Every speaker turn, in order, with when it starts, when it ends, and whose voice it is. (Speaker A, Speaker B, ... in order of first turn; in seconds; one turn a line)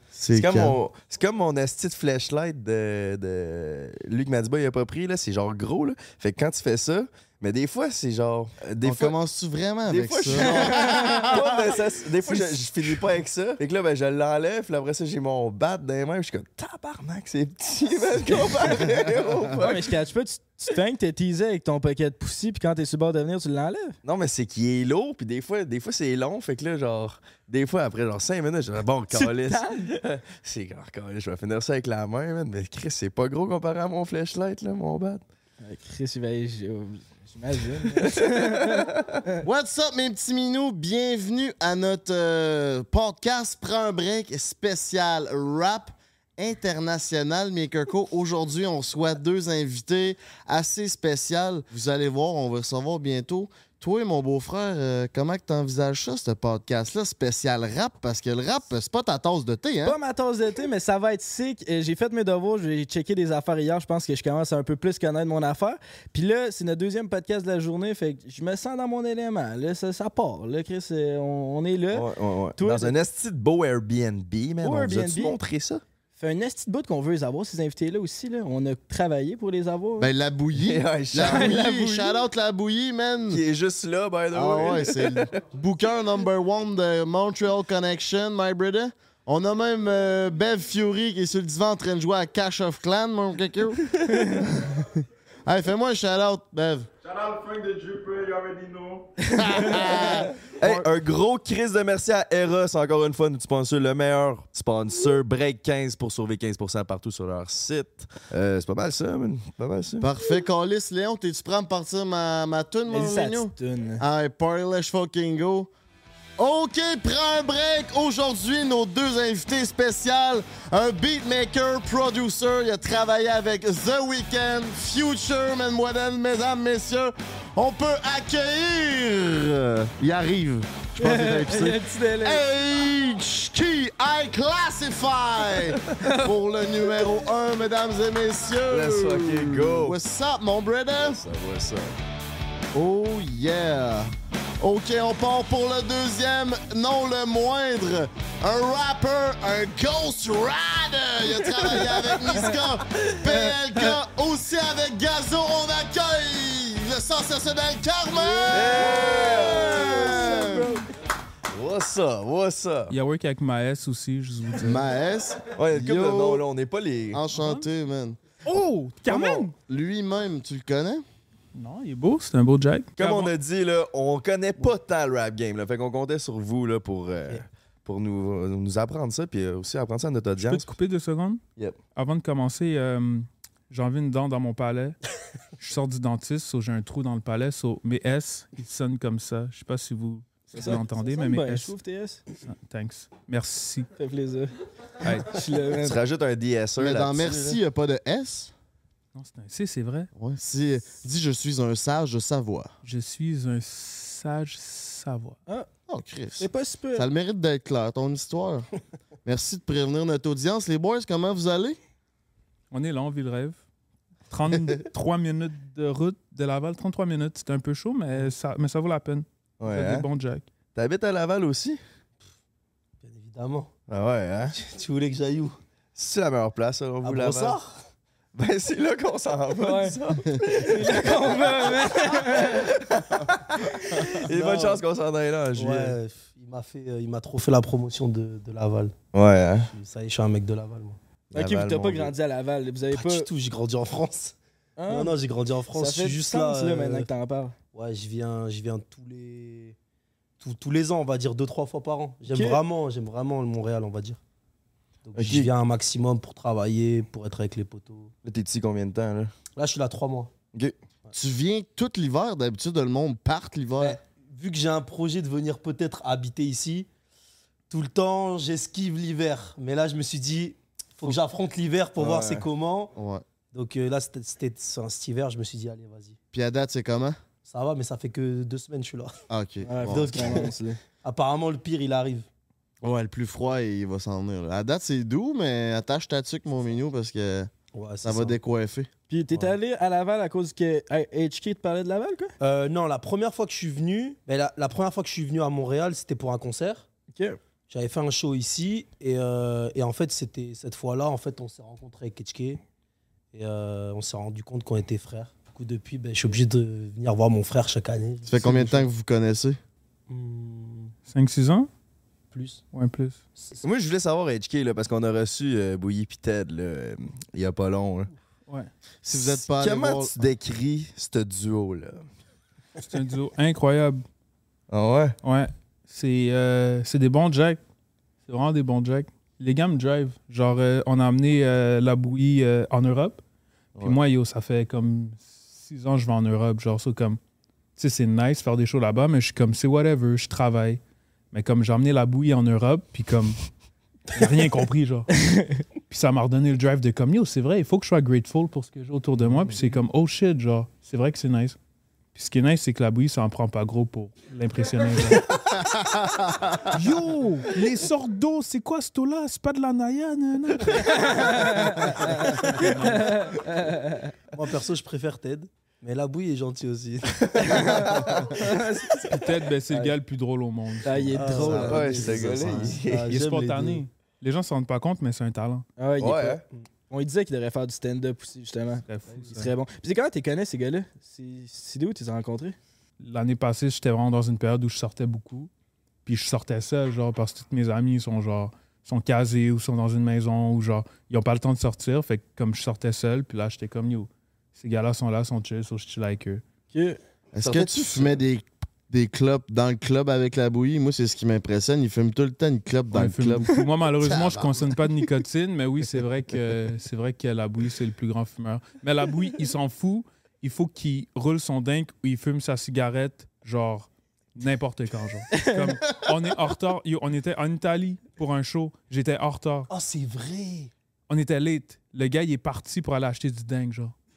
Speaker A: 0.1-0.8
Speaker B: 0.3-9.1
Speaker A: 8.8-11.6
Speaker B: 9.9-19.9
Speaker C: 10.4-11.3
Speaker C: 19.6-24.0
Speaker B: 24.0-35.2
Speaker C: 29.1-29.9
Speaker C: 35.6-38.9
Speaker B: 37.9-39.1
Speaker A: 39.4-60.0
Speaker C: 59.8-73.0
Speaker B: 71.9-75.8
Speaker C: 74.6-75.4
Speaker C: 76.2-80.1
Speaker A: 80.0-83.4
Speaker B: 80.6-81.6
Speaker C: 81.2-82.2
Speaker B: 83.3-85.3
Speaker A: 84.3-96.9
Speaker C: 94.1-94.4
Speaker D: 97.1-99.1
Speaker A: 99.3-100.8
Speaker C: 99.5-99.8
Speaker B: 100.4-110.1
Speaker A: 110.0-115.7
Speaker C: 112.9-114.0
Speaker A: 116.4-141.2
Speaker C: 131.0-132.4
Speaker B: 138.7-140.0
Speaker B: 141.0-142.0
Speaker A: 142.7-160.8
Speaker C: 158.2-159.1
Speaker B: 158.5-160.5
Speaker C: 159.9-160.7
Speaker B: 161.5-162.9
Speaker E: 162.9-164.9
Speaker A: 164.6-166.4
Speaker B: 165.6-167.2
Speaker A: 167.1-168.2
Speaker E: 167.3-167.7
Speaker E: 168.4-169.5
Speaker A: 169.3-171.0
Speaker E: 171.5-173.3
Speaker B: 173.0-180.7
Speaker E: 180.4-181.4
Speaker E: 181.9-185.0
Speaker E: 185.6-191.7
Speaker C: 190.5-192.2
Speaker E: 192.4-193.9
Speaker C: 194.0-194.5
Speaker E: 195.0-195.4
Speaker C: 195.1-196.0
Speaker B: 195.8-197.6
Speaker A: 196.8-198.5
Speaker E: 199.2-200.1
Speaker A: 200.2-202.7
Speaker E: 202.8-205.4
Speaker A: 205.9-208.7
Speaker C: 206.4-207.1
Speaker A: 209.2-211.8
Speaker E: 212.7-213.6
Speaker E: 214.3-220.5
Speaker B: 219.6-220.1
Speaker B: 220.8-221.8
Speaker F: 223.0-223.7
Speaker B: 223.9-224.6
Speaker F: 224.5-225.6
Speaker B: 225.9-227.6
Speaker F: 227.0-227.8
Speaker B: 228.3-236.0
Speaker C: 229.6-232.7
Speaker F: 234.2-234.8
Speaker F: 235.5-238.9
Speaker B: 239.1-239.7
Speaker F: 239.7-241.0
Speaker B: 241.3-242.1
Speaker C: 241.3-243.3
Speaker F: 242.9-244.4
Speaker C: 244.8-245.1
Speaker F: 244.9-247.1
Speaker C: 245.8-247.6
Speaker F: 247.7-249.8
Speaker F: 250.4-254.2
Speaker C: 252.3-252.6
Speaker F: 255.1-258.1
Speaker B: 255.2-255.5
Speaker B: 258.2-259.3
Speaker F: 259.6-260.3
Speaker A: 261.1-264.0
Speaker F: 263.8-266.9
Speaker F: 267.7-272.9
Speaker B: 272.0-272.5
Speaker A: 273.0-273.2
Speaker F: 273.5-276.2
Speaker A: 276.3-277.2
Speaker F: 277.4-279.2
Speaker A: 279.3-280.4
Speaker C: 279.6-280.8
Speaker F: 279.9-282.3
Speaker A: 282.8-287.5
Speaker F: 287.7-288.4
Speaker A: 288.0-288.9
Speaker C: 289.1-292.3
Speaker F: 292.4-296.9
Speaker C: 297.1-297.4
Speaker F: 297.7-302.6
Speaker F: 303.3-308.8
Speaker A: 308.3-309.6
Speaker F: 310.1-310.9
Speaker E: 311.1-311.7
Speaker F: 312.3-312.6
Speaker E: 312.7-313.2
Speaker F: 313.4-313.6
Speaker B: 313.6-318.1
Speaker A: 319.0-320.2
Speaker B: 319.4-322.1
Speaker E: 322.8-324.0
Speaker B: 324.7-325.2
Speaker E: 325.2-327.6
Speaker E: 328.3-333.2
Speaker E: 333.8-337.2
Speaker E: 337.8-340.8
Speaker E: 341.3-343.4
Speaker E: 344.1-345.1
Speaker C: 345.3-345.6
Speaker E: 345.9-351.6
Speaker E: 352.1-355.4
Speaker A: 355.5-356.8
Speaker E: 356.7-363.4
Speaker C: 360.8-364.1
Speaker F: 364.3-368.3
Speaker C: 367.5-369.1
Speaker B: 367.7-368.3
Speaker E: 369.1-371.4
Speaker C: 370.9-372.8
Speaker F: 371.1-373.8
Speaker A: 371.4-371.9
Speaker B: 371.5-373.1
Speaker E: 373.1-375.6
Speaker C: 375.8-382.6
Speaker B: 376.0-376.4
Speaker E: 378.9-379.5
Speaker E: 383.0-385.5
Speaker E: 386.1-396.4
Speaker C: 396.7-397.0
Speaker A: 397.3-404.7
Speaker B: 397.4-398.2
Speaker E: 402.9-419.7
Speaker C: 415.3-415.6
Speaker F: 419.7-420.7
Speaker E: 421.1-423.9